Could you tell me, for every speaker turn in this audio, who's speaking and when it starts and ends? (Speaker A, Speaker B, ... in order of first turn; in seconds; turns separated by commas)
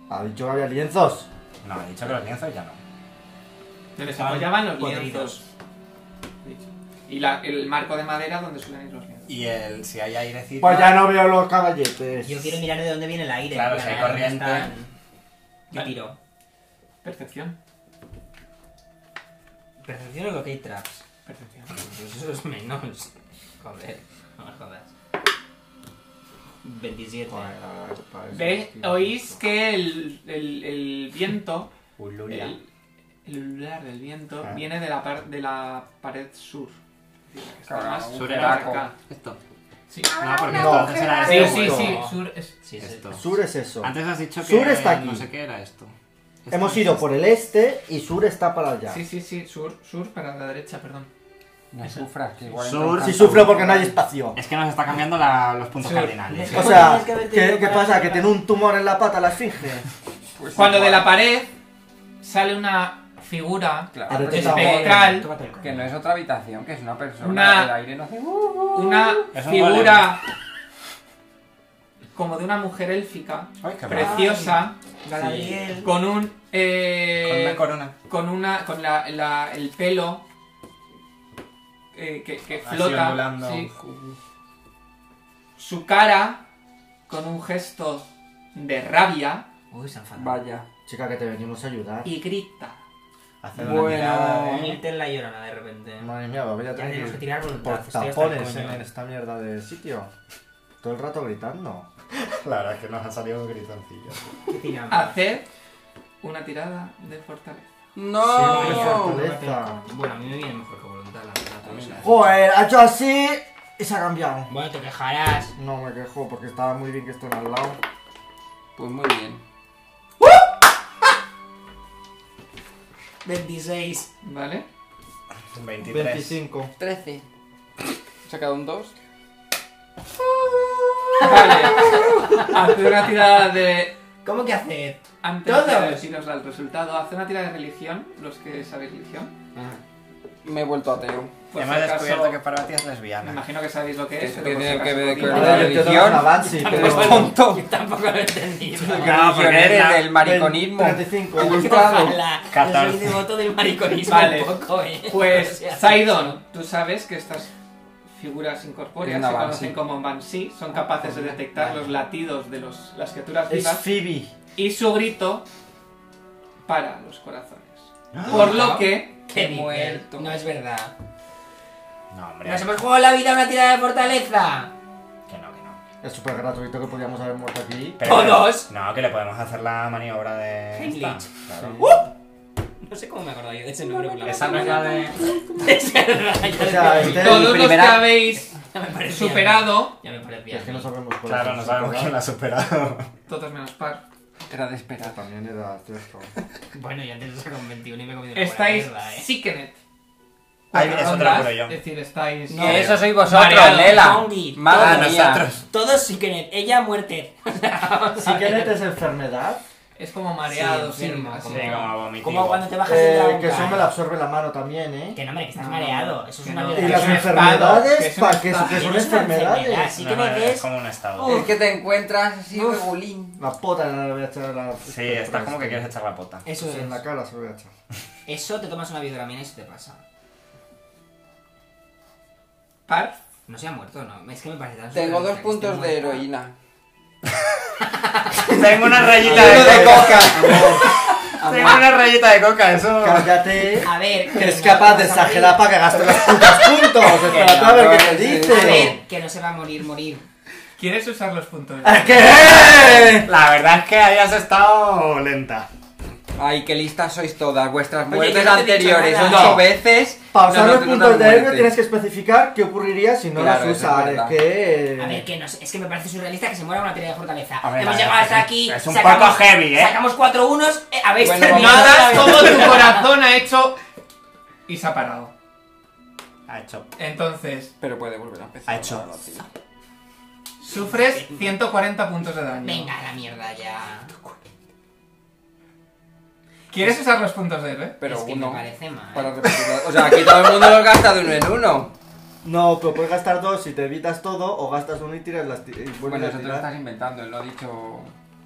Speaker A: 0.1-1.3, Speaker B: 1.6-2.8, Speaker C: 4.0-5.5, Speaker D: 4.0-5.4, Speaker C: 6.4-9.3, Speaker B: 9.3-11.0, Speaker A: 10.6-12.6, Speaker D: 12.2-14.9, Speaker B: 13.5-14.7, Speaker C: 15.7-16.0, Speaker D: 15.7-16.2, Speaker C: 17.0-17.6, Speaker D: 19.8-21.0, Speaker C: 21.2-21.8, Speaker D: 21.8-24.9, Speaker D: 26.6-27.5, Speaker A: 27.3-29.4, Speaker C: 28.3-31.7, Speaker B: 32.0-32.6, Speaker C: 32.3-32.6, Speaker C: 33.2-36.8, Speaker C: 37.3-39.0, Speaker E: 37.7-38.9, Speaker B: 38.1-39.4, Speaker B: 40.0-41.9, Speaker D: 40.2-43.1, Speaker A: 40.5-42.0, Speaker C: 41.1-42.6, Speaker B: 42.8-43.3, Speaker A: 43.1-45.3, Speaker B: 43.8-45.9, Speaker B: 46.5-47.0, Speaker A: 46.5-49.0, Speaker C: 48.9-51.1, Speaker E: 51.7-54.0, Speaker B: 52.5-53.7, Speaker A: 53.0-54.4, Speaker B: 54.3-57.0, Speaker C: 55.8-56.7, Speaker D: 56.3-58.4, Speaker A: 56.5-59.9, Speaker E: 60.4-61.1, Speaker C: 60.5-61.5, Speaker C: 62.2-65.3, Speaker E: 63.9-69.1, Speaker A: 64.1-65.2, Speaker D: 64.3-65.9, Speaker C: 67.2-67.8, Speaker C: 68.7-70.2, Speaker B: 69.3-70.2, Speaker C: 72.1-74.8, Speaker B: 73.6-74.3, Speaker D: 73.9-75.9, Speaker E: 75.1-75.5, Speaker C: 75.8-80.2, Speaker B: 77.2-77.9, Speaker C: 81.9-83.7, Speaker B: 82.6-83.7, Speaker E: 83.8-84.2, Speaker C: 85.6-86.4, Speaker C: 87.1-89.5, Speaker D: 89.7-90.4, Speaker E: 90.2-90.7, Speaker A: 90.9-92.1, Speaker C: 92.0-92.8, Speaker B: 93.4-94.2, Speaker E: 93.5-94.8, Speaker D: 93.6-96.1, Speaker A: 96.0-100.1, Speaker D: 96.7-98.8, Speaker A: 100.8-101.9, Speaker B: 102.3-104.4, Speaker D: 104.5-105.2, Speaker C: 104.9-105.5, Speaker C: 106.2-107.8, Speaker E: 108.0-109.3, Speaker A: 108.2-109.8, Speaker D: 108.3-112.3, Speaker E: 111.6-112.2, Speaker A: 112.0-114.5, Speaker D: 114.5-115.5, Speaker A: 115.6-117.8, Speaker E: 118.8-119.4, Speaker D: 123.2-124.1, Speaker C: 124.2-124.7, Speaker B: 125.5-126.4, Speaker A: 125.8-126.7, Speaker E: 126.8-127.3, Speaker E: 128.2-128.9, Speaker D: 131.0-132.6, Speaker C: 131.2-133.9, Speaker D: 134.2-136.0, Speaker C: 135.2-139.3, Speaker E: 140.4-141.4, Speaker C: 141.5-142.4, Speaker B: 141.5-143.4, Speaker C: 143.2-146.1, Speaker E: 144.1-147.6, Speaker D: 145.2-149.2, Speaker A: 145.3-147.4, Speaker A: 148.8-151.7, Speaker E: 149.0-152.2, Speaker B: 149.0-150.1, Speaker D: 151.4-156.4, Speaker B: 152.5-153.2, Speaker C: 154.1-157.5, Speaker C: 158.1-163.8, Speaker E: 159.0-159.8, Speaker D: 161.0-161.8, Speaker A: 163.5-164.3, Speaker C: 164.6-165.4, Speaker C: 166.7-169.2, Speaker B: 168.1-168.7, Speaker D: 168.3-170.9, Speaker E: 169.3-170.4, Speaker B: 172.1-172.8, Speaker D: 172.4-174.7, Speaker B: 175.3-175.8, Speaker A: 176.0-178.0, Speaker B: 178.0-181.9, Speaker D: 178.0-178.7, Speaker D: 180.7-182.1, Speaker A: 181.6-181.9, Speaker D: 182.8-187.7, Speaker B: 184.2-185.2, Speaker A: 186.6-187.7, Speaker E: 187.0-188.2, Speaker C: 187.1-190.0, Speaker D: 188.3-190.9, Speaker A: 190.5-192.2, Speaker B: 191.2-193.1, Speaker C: 193.3-194.0, Speaker E: 194.5-195.2, Speaker A: 195.0-196.3, Speaker D: 196.7-199.3, Speaker C: 198.3-199.8, Speaker C: 200.7-204.0, Speaker B: 200.7-201.8, Speaker D: 202.5-208.8, Speaker E: 202.6-205.5, Speaker B: 202.6-203.1, Speaker B: 204.7-205.7, Speaker A: 208.2-209.6, Speaker C: 210.0-211.9, Speaker D: 210.5-213.9, Speaker B: 211.5-212.8, Speaker A: 212.8-215.2, Speaker D: 215.2-217.5, Speaker C: 215.6-218.9, Speaker A: 216.7-219.9, Speaker D: 218.5-221.6, Speaker B: 220.0-221.5, Speaker E: 221.2-223.4, Speaker D: 222.5-222.9, Speaker A: 223.4-225.9, Speaker B: 224.9-226.5, Speaker D: 226.4-227.0, Speaker A: 226.6-227.7, Speaker D: 228.3-230.0, Speaker C: 232.9-233.2, Speaker D: 233.5-236.2, Speaker E: 234.9-236.6, Speaker B: 237.4-237.7, Speaker D: 237.8-238.7, Speaker B: 238.4-243.4, Speaker E: 239.2-241.9, Speaker A: 239.2-240.9, Speaker D: 239.8-240.5, Speaker A: 243.0-249.0, Speaker D: 243.8-246.9, Speaker E: 247.1-248.9, Speaker D: 248.2-250.3, Speaker C: 250.8-252.3, Speaker A: 251.8-253.3, Speaker B: 253.2-255.7, Speaker E: 256.4-261.8, Speaker D: 258.1-259.6, Speaker C: 259.2-259.7, Speaker A: 260.3-265.3, Speaker E: 263.4-264.4, Speaker D: 265.0-273.0, Speaker B: 267.6-270.0, Speaker E: 271.2-272.3, Speaker C: 271.4-273.8, Speaker C: 274.7-275.3, Speaker B: 276.5-276.9, Speaker C: 277.0-277.7, Speaker E: 277.8-279.4, Speaker B: 278.7-279.5, Speaker C: 280.6-282.9, Speaker D: 280.7-281.6, Speaker D: 282.6-284.1, Speaker C: 286.7-288.0, Speaker E: 288.0-291.9, Speaker D: 288.0-289.4, Speaker A: 292.4-296.7, Speaker E: 296.0-298.1